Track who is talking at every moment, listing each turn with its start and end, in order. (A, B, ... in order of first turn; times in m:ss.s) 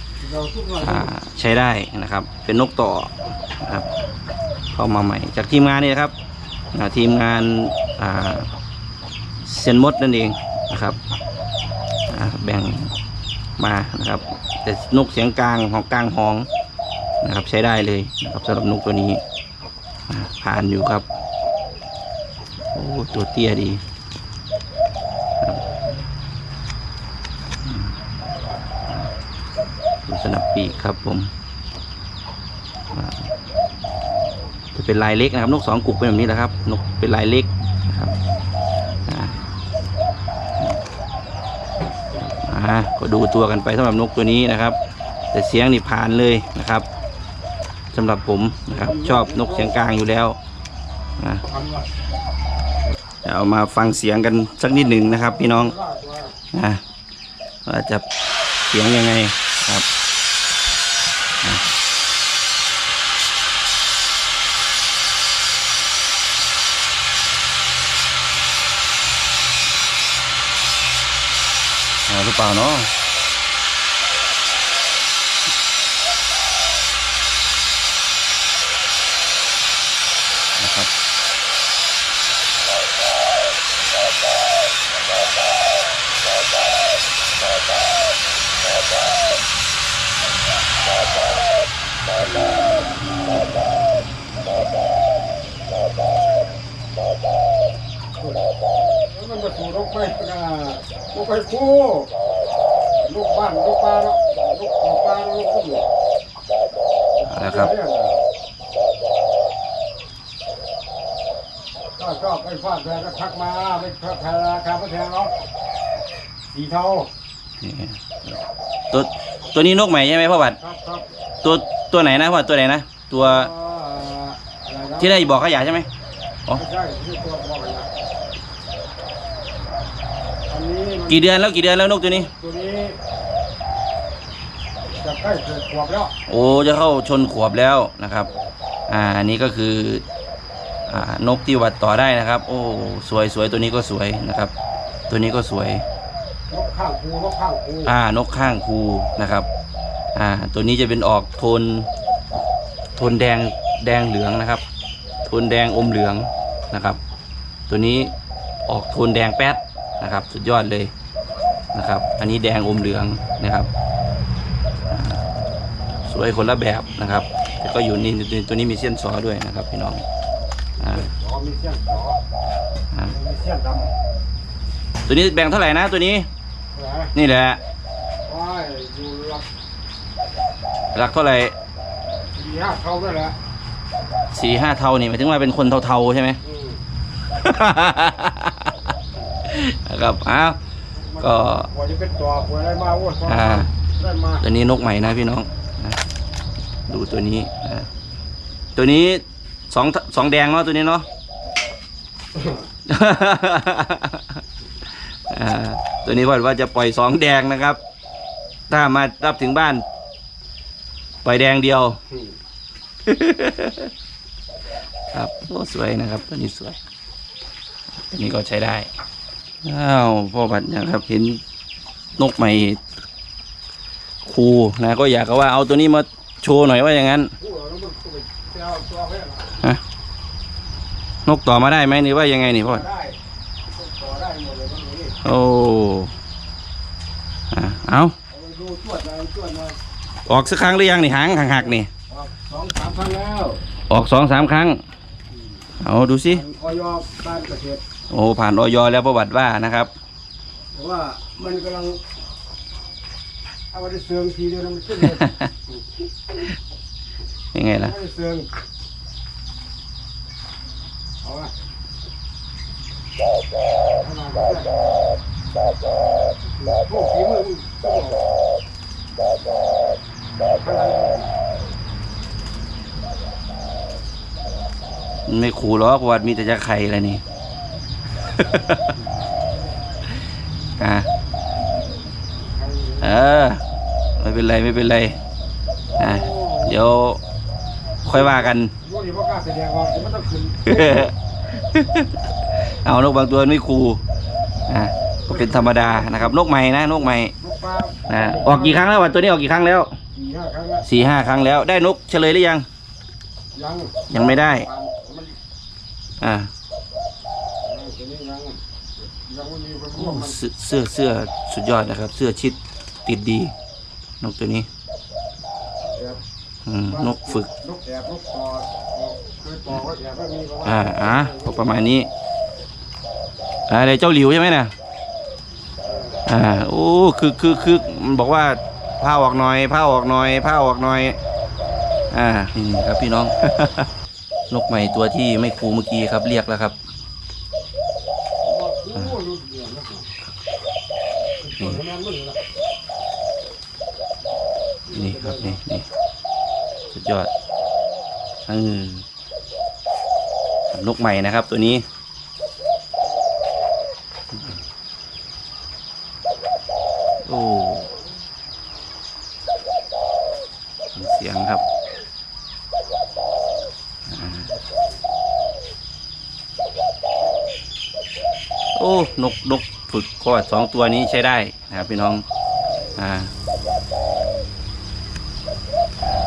0:00.2-0:01.1 A
0:00.8-0:03.9 B
0:04.7-0:06.1 B
0:06.7-0:08.5 B
0:09.4-0:11.0 B
0:12.1-0:12.9 B
0:13.6-0:16.5 B
0:17.2-0:19.2 B
0:20.1-0:21.1 B
0:22.8-0:23.8 B
0:25.4-0:25.7 B
0:27.6-0:28.0 B
0:30.1-0:31.3 B
0:32.9-0:33.3 B
0:34.7-0:38.2 B
0:39.1-0:39.4 B
0:42.2-0:44.8 B
0:45.3-0:46.9 B
0:47.9-0:50.4 B
0:48.7-0:49.8 A
0:51.2-0:51.4 B
0:51.5-0:51.9 A
0:53.2-0:55.7 B
0:55.0-0:56.3 A
0:56.5-0:56.8 B
0:57.7-0:58.0 B
0:58.7-0:59.8 B
1:12.1-1:12.9 B
1:20.6-1:20.9 B
1:39.0-1:42.1 A
1:43.0-1:45.9 A
1:47.2-1:48.2 A
1:47.3-1:47.7 B
1:52.0-1:55.3 A
1:56.5-1:57.1 A
1:57.6-1:58.0 B
1:58.9-2:00.6 B
2:00.6-2:01.1 A
2:01.4-2:03.5 B
2:03.2-2:05.4 A
2:05.0-2:05.9 B
2:06.5-2:07.9 A
2:10.5-2:11.3 A
2:11.1-2:12.3 B
2:12.1-2:13.0 A
2:15.0-2:16.1 A
2:16.3-2:18.3 B
2:18.9-2:20.0 B
2:20.9-2:24.5 B
2:25.1-2:25.8 B
2:26.5-2:27.9 A
2:27.8-2:29.5 B
2:30.2-2:31.9 B
2:33.0-2:34.6 B
2:35.3-2:37.0 B
2:37.7-2:38.1 B
2:38.7-2:40.9 B
2:41.7-2:43.7 B
2:44.9-2:45.2 B
2:46.1-2:50.0 B
2:50.8-2:52.2 A
2:50.8-2:51.1 B
2:53.1-2:53.9 A
2:55.1-2:56.3 B
2:56.7-2:57.1 A
2:57.1-2:57.6 B
2:58.3-2:59.5 A
3:00.9-3:01.6 B
3:02.3-3:03.4 A
3:04.3-3:06.4 B
3:06.4-3:06.8 A
3:07.3-3:08.9 B
3:09.5-3:10.6 B
3:11.0-3:14.4 A
3:11.2-3:11.7 B
3:13.3-3:13.7 B
3:14.4-3:16.0 B
3:16.9-3:17.9 B
3:18.8-3:21.1 B
3:22.9-3:24.4 B
3:25.3-3:27.8 B
3:28.7-3:29.8 B
3:31.2-3:32.0 B
3:33.0-3:33.9 B
3:35.1-3:36.8 B
3:38.1-3:38.9 B
3:39.6-3:41.4 B
3:42.2-3:42.8 B
3:44.2-3:47.3 B
3:47.4-3:49.6 A
3:51.3-3:52.8 B
3:52.6-3:53.2 A
3:53.7-3:55.2 A
3:55.2-3:56.1 B
3:57.5-3:58.1 B
3:58.3-3:59.8 A
4:00.3-4:01.9 B
4:01.6-4:03.6 A
4:03.9-4:04.8 B
4:05.8-4:06.4 B
4:06.3-4:07.8 A
4:08.1-4:09.9 B
4:10.7-4:12.0 A
4:13.7-4:15.3 A
4:15.0-4:15.5 B
4:17.5-4:18.0 B
4:17.8-4:18.5 A
4:21.2-4:21.5 A
4:24.0-4:24.7 A
4:26.5-4:28.3 A
4:30.4-4:31.3 A
4:35.3-4:37.2 B
4:38.2-4:38.9 B
4:40.8-4:41.1 B
4:42.4-4:43.2 A
4:43.0-4:43.6 B
4:44.2-4:45.2 B
4:46.0-4:46.9 A
4:46.0-4:47.2 B
4:48.0-4:48.7 B
4:48.0-4:51.1 A
4:50.6-4:52.1 B
4:52.8-4:54.0 B
4:54.7-4:57.3 B
4:55.3-4:56.4 A
4:57.4-4:58.9 A
4:58.1-4:59.9 B
5:00.1-5:00.8 A
5:00.8-5:02.7 B
5:03.5-5:05.4 A
5:04.1-5:04.7 B
5:06.2-5:06.5 B
5:07.6-5:10.4 A
5:09.9-5:13.5 B
5:14.2-5:14.7 B
5:16.7-5:17.5 B
5:16.9-5:21.8 A
5:20.6-5:22.1 B
5:23.7-5:24.7 B
5:25.8-5:26.2 A
5:26.3-5:31.2 B
5:32.1-5:33.9 B
5:34.5-5:36.8 B
5:38.4-5:40.1 A
5:41.4-5:42.4 A
5:44.9-5:45.6 A
5:44.9-5:45.9 B
5:46.9-5:47.3 B
5:48.5-5:49.0 B
5:50.7-5:51.8 B
5:57.2-5:57.9 B
6:01.0-6:01.6 B
6:04.1-6:04.5 B
6:08.8-6:12.2 B
6:13.0-6:13.3 B